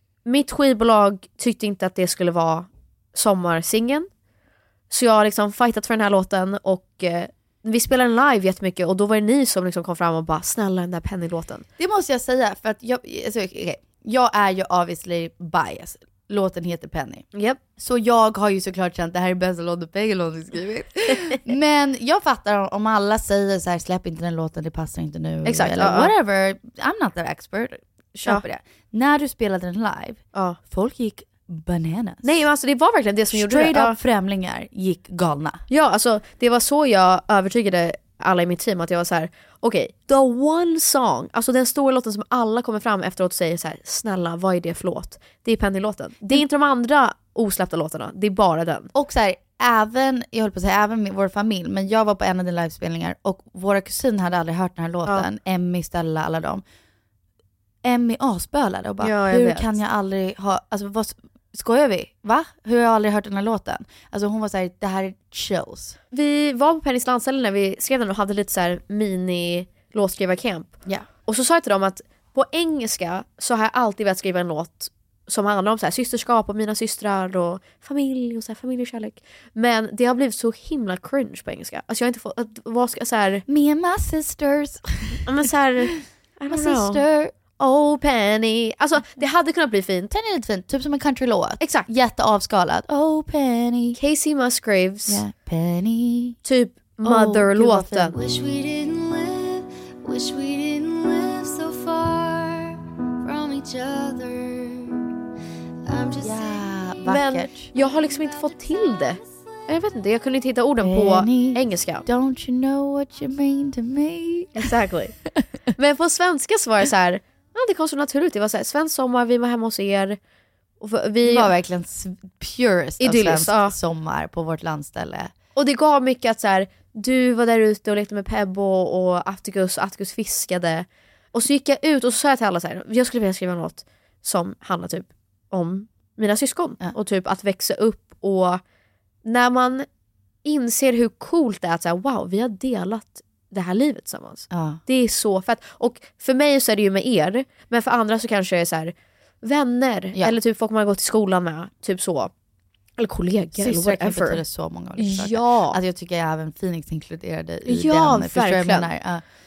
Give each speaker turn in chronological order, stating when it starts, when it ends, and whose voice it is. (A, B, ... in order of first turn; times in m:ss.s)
0:00.2-0:04.1 A
0:04.9-0:11.7 A
0:11.8-0:17.2 B
0:17.3-0:17.6 A
0:17.8-0:32.4 B
0:25.4-0:26.1 A
0:32.2-0:34.0 A
0:33.3-0:35.6 B
0:35.7-0:48.9 A
0:48.9-0:56.6 B
0:57.8-1:06.0 B
0:59.0-0:59.7 A
1:06.1-1:10.7 A
1:11.3-1:23.4 A
1:23.5-1:25.2 B
1:25.3-1:27.0 A
1:26.5-1:27.3 B
1:27.6-1:30.1 A
1:30.1-1:34.0 B
1:31.6-1:31.9 A
1:34.0-1:35.2 A
1:35.1-1:36.4 B
1:36.4-1:38.2 A
1:37.0-1:38.1 B
1:38.1-1:45.0 C
1:45.8-1:46.6 C
1:46.2-1:47.7 B
1:47.1-1:52.0 A
1:47.8-1:49.4 C
1:50.8-1:54.7 B
1:54.6-1:55.2 A
1:55.8-2:00.2 A
2:00.8-2:01.5 A
2:01.2-2:05.3 B
2:03.0-2:03.8 A
2:05.6-2:18.6 A
2:19.2-2:19.9 A
2:20.4-2:32.3 A
2:24.5-2:24.8 B
2:33.0-2:34.4 A
2:33.6-2:39.2 B
2:35.0-2:35.8 A
2:37.7-2:38.9 A